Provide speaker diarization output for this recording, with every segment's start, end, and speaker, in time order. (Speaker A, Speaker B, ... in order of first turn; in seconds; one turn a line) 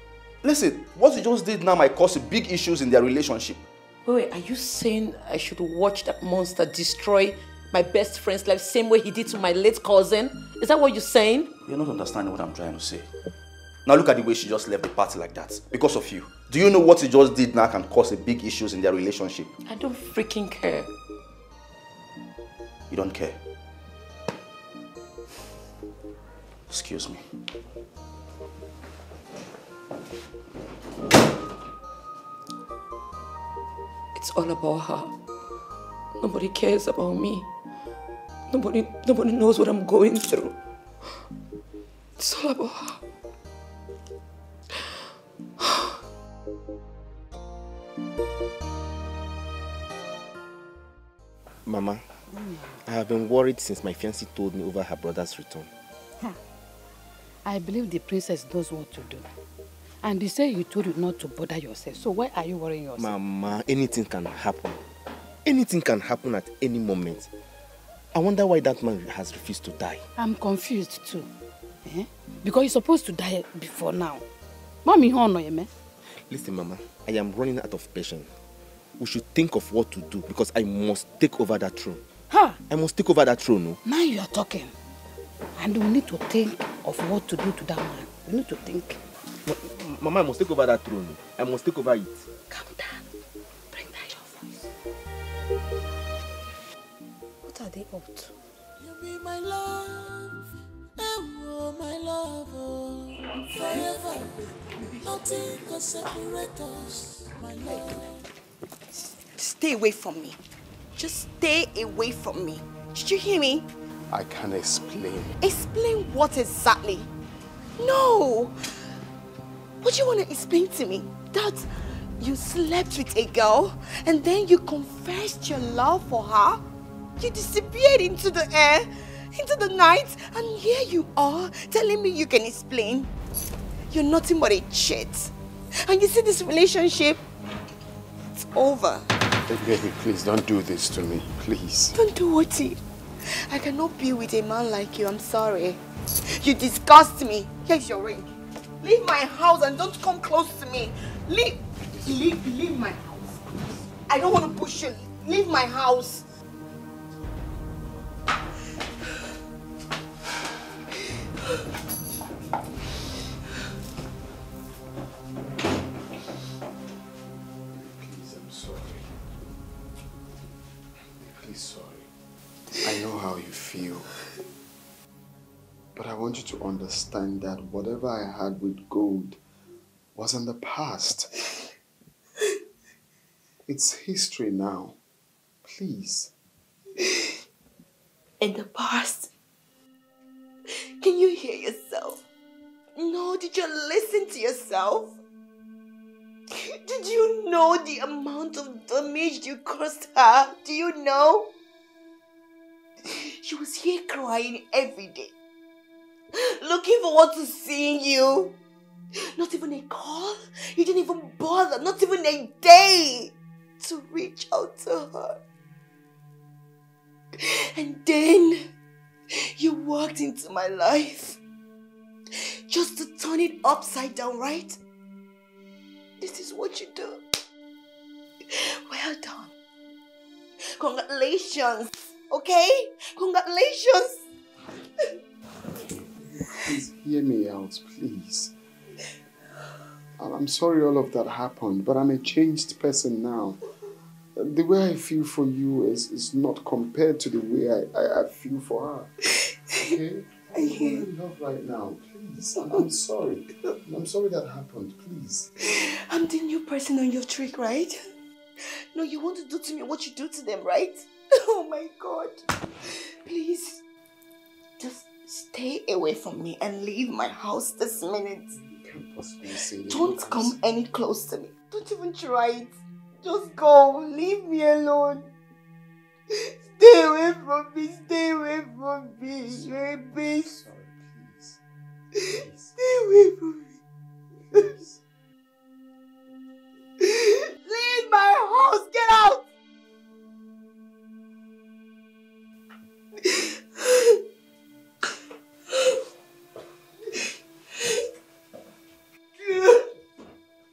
Speaker A: 0.4-3.6
Speaker B: 4.0-11.5
Speaker A: 11.6-13.1
Speaker A: 13.8-19.5
Speaker B: 19.6-20.9
Speaker A: 22.9-23.4
Speaker A: 26.7-27.3
Speaker B: 34.1-35.1
Speaker B: 36.2-37.5
Speaker B: 38.5-41.3
Speaker B: 42.2-43.0
Speaker B: 45.6-45.9
Speaker C: 51.6-52.0
Speaker C: 52.7-55.7
Speaker D: 57.5-59.3
Speaker D: 60.0-63.1
Speaker C: 63.0-64.8
Speaker C: 65.4-67.3
Speaker C: 68.1-70.1
Speaker D: 70.2-71.3
Speaker D: 71.8-74.2
Speaker D: 74.8-75.7
Speaker C: 76.0-78.3
Speaker C: 79.0-82.0
Speaker D: 82.3-82.6
Speaker C: 82.7-83.8
Speaker D: 83.8-84.7
Speaker D: 85.6-89.0
Speaker C: 89.4-92.2
Speaker E: 92.5-93.0
Speaker E: 93.7-94.5
Speaker E: 97.5-98.3
Speaker F: 98.8-100.4
Speaker F: 101.0-104.4
Speaker E: 103.5-104.2
Speaker F: 104.9-108.2
Speaker E: 108.9-110.4
Speaker E: 111.0-113.7
Speaker G: 114.1-115.4
Speaker E: 115.4-117.1
Speaker E: 117.8-118.9
Speaker E: 119.8-126.6
Speaker E: 127.2-133.1
Speaker E: 133.9-137.2
Speaker E: 138.3-139.1
Speaker G: 139.5-141.9
Speaker E: 141.9-153.4
Speaker E: 154.1-156.3
Speaker G: 167.7-169.1
Speaker G: 171.0-172.1
Speaker G: 172.8-174.2
Speaker G: 175.9-179.4
Speaker G: 180.2-181.6
Speaker G: 183.7-184.9
Speaker G: 185.7-186.3
Speaker E: 188.4-189.3
Speaker E: 190.7-192.2
Speaker E: 193.0-195.2
Speaker E: 196.5-201.5
Speaker E: 203.0-205.3
Speaker E: 206.3-208.5
Speaker E: 209.1-215.4
Speaker E: 217.3-218.7
Speaker E: 219.3-221.4
Speaker E: 222.3-224.8
Speaker E: 226.2-227.2
Speaker E: 228.4-229.5
Speaker E: 230.6-234.2
Speaker G: 236.2-238.5
Speaker G: 240.2-243.6
Speaker G: 244.4-249.1
Speaker G: 249.8-255.5
Speaker E: 250.6-251.1
Speaker E: 255.6-258.1
Speaker E: 258.6-263.8
Speaker E: 264.8-268.6
Speaker G: 268.6-270.6
Speaker E: 269.5-275.3
Speaker E: 276.3-280.5
Speaker G: 279.4-281.6
Speaker G: 282.2-282.8
Speaker E: 282.8-283.8
Speaker G: 284.3-285.0
Speaker E: 287.0-289.4
Speaker E: 293.2-294.2
Speaker E: 297.8-298.0
Speaker E: 299.4-299.9